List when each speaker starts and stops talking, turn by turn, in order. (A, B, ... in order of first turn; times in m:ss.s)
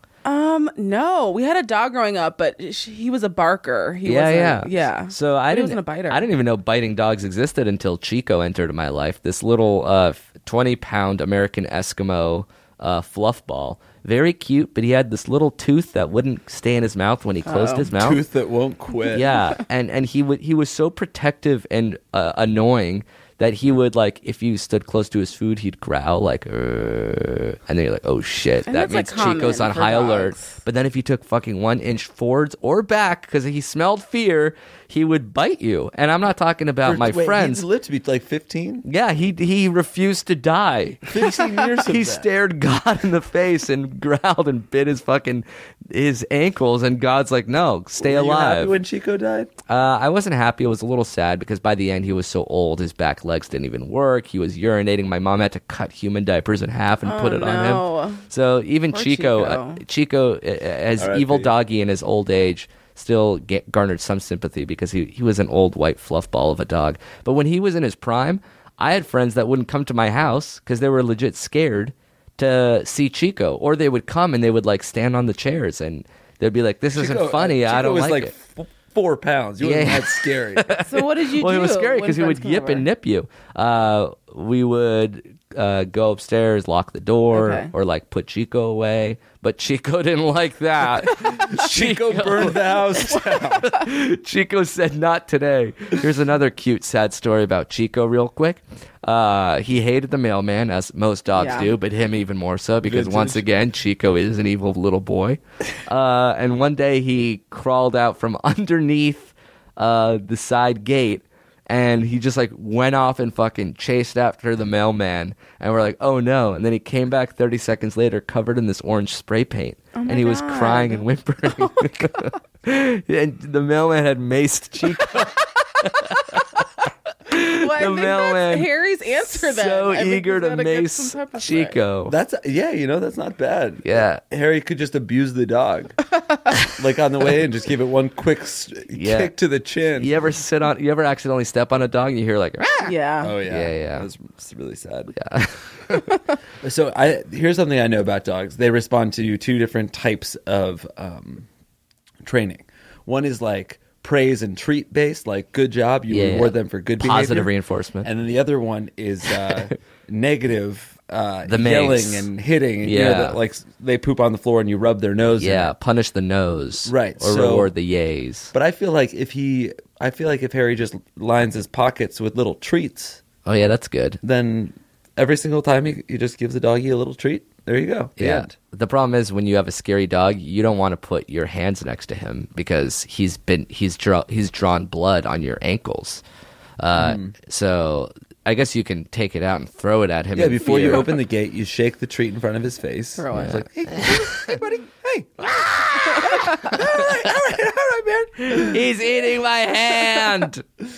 0:00.2-0:06.2 A
0:04.1-0:18.2 B
0:17.5-0:17.9 A
0:17.9-0:19.4 C
0:19.1-0:37.6 B
0:28.7-0:30.6 A
0:36.8-0:38.8 C
0:38.9-0:48.8 B
0:41.1-0:42.3 C
0:48.0-0:49.5 C
0:49.7-1:18.3 B
0:57.0-0:58.2 A
0:58.9-0:59.8 A
1:01.0-1:01.5 C
1:16.9-1:20.7 C
1:19.6-2:06.6 B
1:20.8-1:22.9 A
1:27.3-1:27.7 A
1:31.2-1:33.7 C
1:41.4-1:41.7 A
1:42.8-1:43.5 C
2:00.0-2:02.3 A
2:07.3-2:08.7 B
2:07.5-2:11.8 A
2:09.3-2:12.2 B
2:12.1-2:16.0 C
2:13.8-2:14.2 B
2:16.7-2:20.2 C
2:18.9-2:19.3 B
2:20.0-2:24.1 B
2:22.8-2:23.4 A
2:23.2-2:25.2 C
2:25.2-2:26.1 B
2:26.6-2:31.5 C
2:32.2-2:37.5 C
2:36.1-2:38.1 B
2:38.0-2:45.7 C
2:41.5-2:42.3 B
2:42.8-2:43.4 B
2:45.4-2:48.5 B
2:46.8-2:47.7 C
2:48.5-2:53.2 C
2:53.4-2:54.2 B
2:54.2-2:58.5 C
2:58.2-3:06.2 B
3:06.8-3:11.1 B
3:07.0-3:07.3 C
3:10.3-3:18.8 C
3:13.2-3:13.6 A
3:13.4-3:14.6 B
3:15.4-3:17.6 B
3:16.3-3:16.6 A
3:18.4-3:20.7 B